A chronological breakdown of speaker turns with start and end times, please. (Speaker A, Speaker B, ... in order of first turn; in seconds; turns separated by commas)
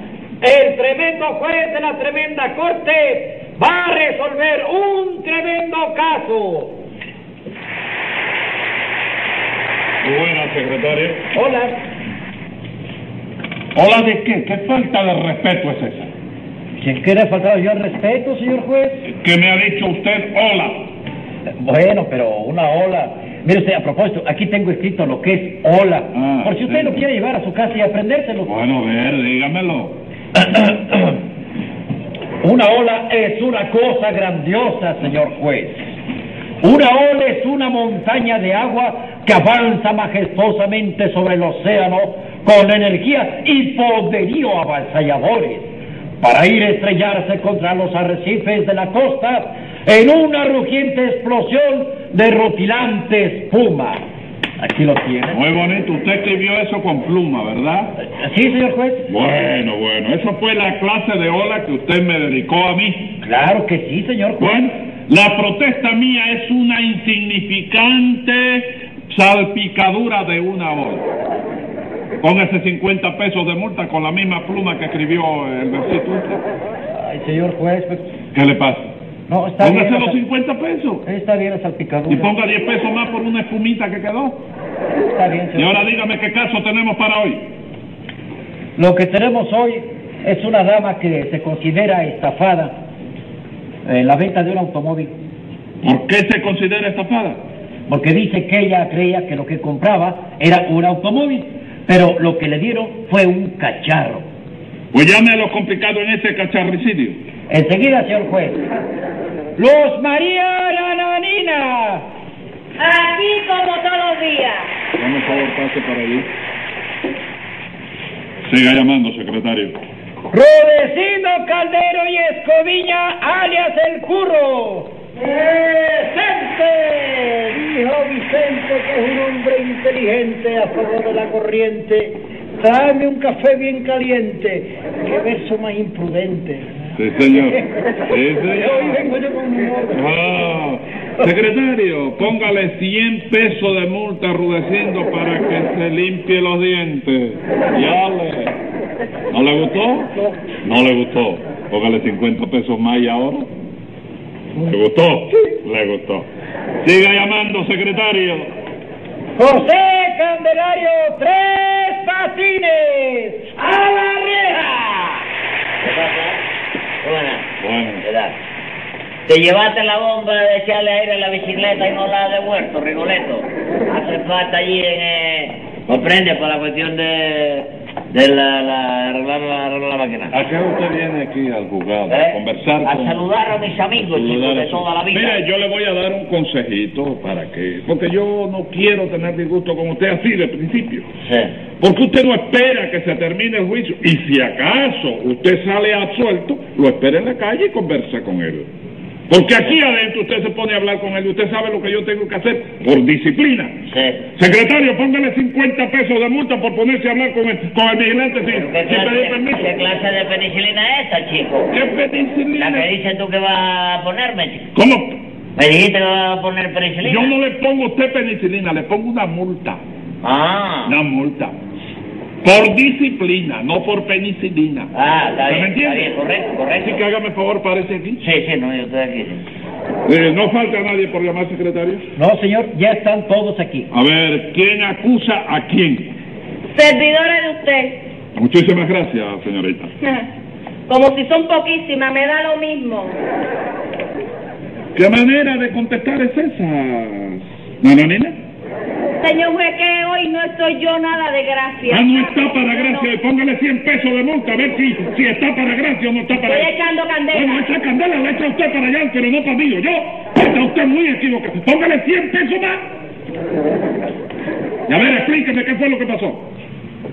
Speaker A: 0.4-6.7, Speaker B: 0.7-2.7, Speaker B: 3.6-3.8, Speaker C: 10.0-11.2, Speaker A: 11.3-11.7, Speaker C: 13.7-16.1, Speaker B: 16.8-19.0, Speaker C: 19.1-20.9, Speaker B: 21.6-28.5, Speaker C: 26.1-27.0, Speaker C: 28.4-30.0, Speaker B: 30.4-31.1, Speaker B: 32.4-35.8, Speaker B: 36.6-45.7, Speaker B: 46.2-54.0, Speaker B: 54.6-55.4, Speaker C: 55.3-57.9, Speaker B: 58.1-59.1, Speaker C: 59.1-63.1, Speaker B: 63.2-64.7, Speaker C: 64.4-71.0, Speaker C: 72.2-76.4, Speaker B: 77.0-78.0, Speaker C: 78.3-78.9, Speaker B: 79.3-80.2, Speaker C: 79.6-81.0, Speaker B: 81.0-82.3, Speaker C: 82.1-84.4, Speaker B: 85.1-85.8, Speaker C: 85.5-87.4, Speaker B: 88.8-92.7, Speaker B: 93.8-95.1, Speaker C: 95.8-97.4, Speaker B: 97.9-104.2, Speaker C: 104.9-107.2, Speaker B: 107.5-108.6, Speaker B: 109.6-112.0, Speaker D: 112.8-114.7, Speaker C: 115.0-116.3, Speaker C: 118.4-119.8, Speaker A: 120.3-136.7, Speaker C: 136.9-139.1, Speaker A: 137.3-137.7, Speaker A: 138.3-140.1, Speaker C: 139.9-148.6, Speaker C: 149.3-150.1, Speaker C: 150.6-153.5, Speaker C: 154.6-156.3, Speaker C: 156.8-158.5, Speaker A: 159.4-163.4, Speaker E: 163.6-165.2, Speaker E: 165.8-166.4, Speaker E: 167.0-167.5, Speaker C: 167.6-168.0, Speaker E: 168.0-168.3, Speaker E: 169.3-180.4, Speaker C: 180.3-183.2, Speaker E: 182.1-185.4, Speaker C: 184.1-191.1, Speaker E: 191.2-191.5, Speaker C: 191.8-198.7, Speaker C: 199.3-203.7, Speaker E: 203.8-204.2, Speaker C: 204.3-209.6, Speaker E: 208.5-211.7, Speaker C: 211.7-212.9, Speaker E: 212.5-214.7, Speaker C: 214.7-215.2, Speaker E: 215.6-217.3, Speaker C: 217.0-219.8, Speaker E: 220.2-220.9, Speaker C: 220.9-221.5, Speaker C: 222.4-224.9, Speaker E: 224.9-227.0, Speaker C: 225.4-226.1, Speaker C: 226.8-228.2, Speaker E: 228.2-229.4, Speaker C: 230.1-232.1, Speaker B: 232.2-233.9, Speaker C: 233.9-236.1, Speaker D: 236.7-238.0, Speaker C: 238.3-239.9, Speaker D: 240.0-240.2, Speaker D: 240.9-243.2, Speaker C: 244.9-248.4, Speaker D: 249.2-253.1, Speaker C: 251.8-256.7, Speaker D: 256.4-257.7, Speaker C: 257.3-262.8, Speaker C: 264.9-266.5